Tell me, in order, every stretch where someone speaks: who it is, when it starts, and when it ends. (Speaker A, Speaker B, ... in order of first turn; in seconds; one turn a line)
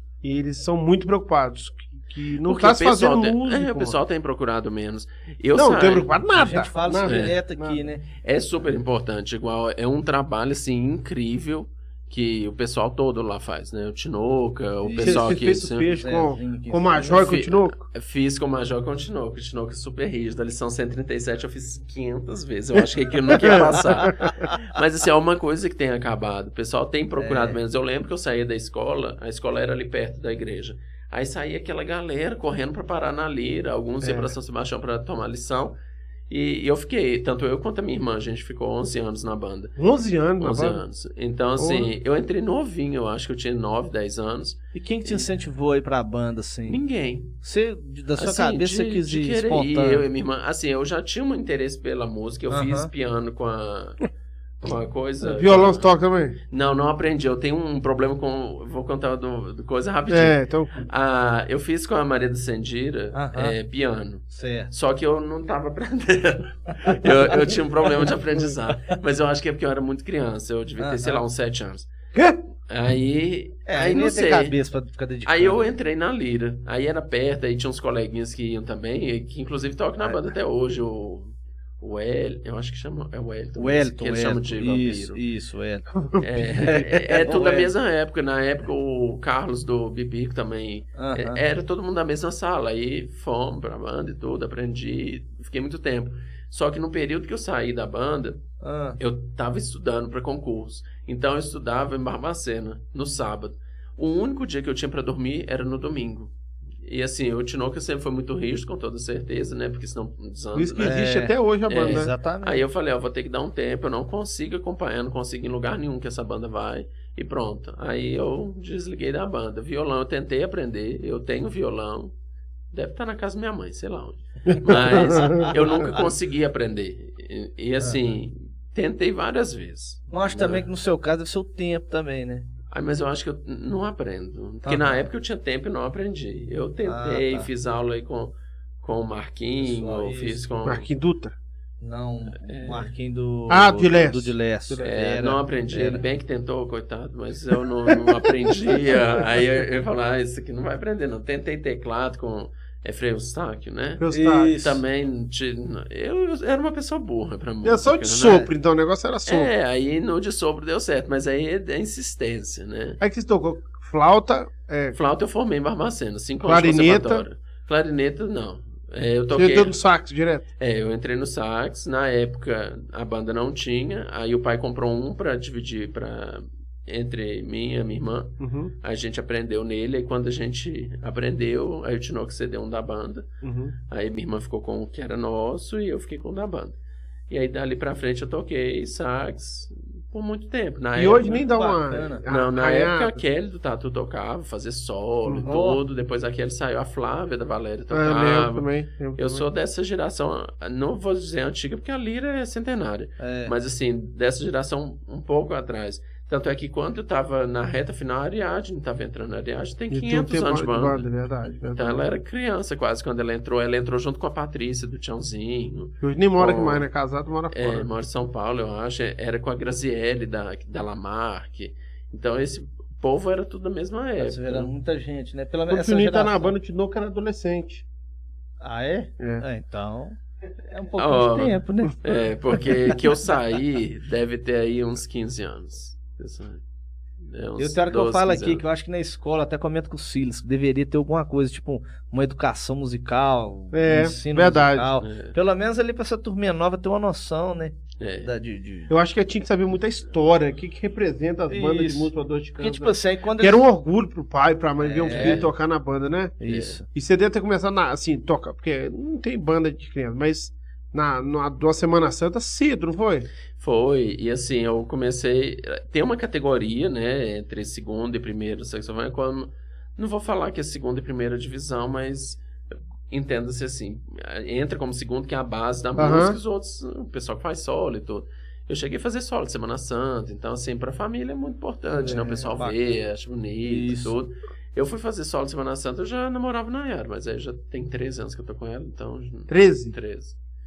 Speaker A: 0.2-4.0
Speaker B: 2.4-6.1
Speaker A: 5.5-7.8
Speaker C: 6.3-8.1
Speaker B: 7.0-7.3
Speaker B: 8.1-15.9
Speaker C: 14.8-17.4
Speaker A: 15.0-17.9
Speaker B: 17.0-35.8
Speaker A: 23.3-24.5
Speaker C: 23.4-24.1
Speaker C: 27.2-27.6
Speaker A: 34.0-34.3
Speaker B: 36.3-39.7
Speaker A: 39.8-40.8
Speaker B: 40.4-45.3
Speaker A: 41.6-41.9
Speaker C: 44.7-46.8
Speaker B: 46.7-47.3
Speaker C: 47.4-50.0
Speaker B: 48.1-54.0
Speaker C: 52.5-52.9
Speaker B: 54.6-55.9
Speaker A: 55.2-56.4
Speaker B: 56.5-71.9
Speaker A: 60.1-60.8
Speaker C: 63.1-63.5
Speaker C: 64.3-64.7
Speaker C: 70.8-71.2
Speaker B: 72.7-74.5
Speaker C: 73.7-75.6
Speaker B: 75.2-85.2
Speaker C: 83.6-85.9
Speaker B: 86.2-98.4
Speaker C: 86.5-87.7
Speaker C: 91.0-91.4
Speaker C: 98.6-99.0
Speaker B: 99.0-111.0
Speaker A: 110.5-112.1
Speaker C: 110.8-112.6
Speaker B: 111.7-122.1
Speaker B: 122.7-130.7
Speaker A: 124.5-125.9
Speaker C: 130.1-132.5
Speaker B: 132.7-140.9
Speaker C: 134.6-135.0
Speaker C: 136.8-137.5
Speaker C: 139.6-140.4
Speaker A: 140.6-141.3
Speaker C: 141.8-146.0
Speaker B: 142.4-142.9
Speaker A: 143.5-144.9
Speaker B: 144.8-158.5
Speaker A: 154.0-154.6
Speaker C: 154.1-154.8
Speaker A: 157.6-159.5
Speaker B: 159.2-163.0
Speaker A: 163.0-165.0
Speaker B: 164.9-169.8
Speaker A: 166.4-167.2
Speaker A: 169.3-170.4
Speaker B: 170.6-183.3
Speaker A: 178.4-178.7
Speaker A: 183.4-183.7
Speaker B: 183.9-186.8
Speaker B: 187.3-191.4
Speaker A: 190.9-193.2
Speaker C: 191.4-192.2
Speaker B: 192.2-198.6
Speaker C: 195.4-195.8
Speaker A: 197.9-199.4
Speaker B: 199.2-211.1
Speaker C: 203.2-203.5
Speaker A: 209.9-212.1
Speaker B: 211.8-216.8
Speaker A: 216.0-217.9
Speaker B: 217.5-224.7
Speaker C: 224.2-226.5
Speaker A: 225.7-227.8
Speaker C: 228.6-232.9
Speaker A: 229.2-229.4
Speaker B: 231.0-236.6
Speaker B: 237.2-238.6
Speaker C: 237.6-248.9
Speaker A: 243.7-244.9
Speaker B: 245.0-245.3
Speaker B: 248.0-248.3
Speaker A: 248.9-263.3
Speaker C: 251.5-253.6
Speaker C: 254.8-255.5
Speaker B: 255.1-255.5
Speaker C: 256.4-256.9
Speaker B: 256.5-256.7
Speaker B: 263.6-272.4
Speaker B: 273.1-290.4
Speaker A: 276.0-276.4
Speaker C: 282.0-282.8
Speaker A: 282.1-282.3
Speaker C: 283.6-284.1
Speaker A: 289.5-289.9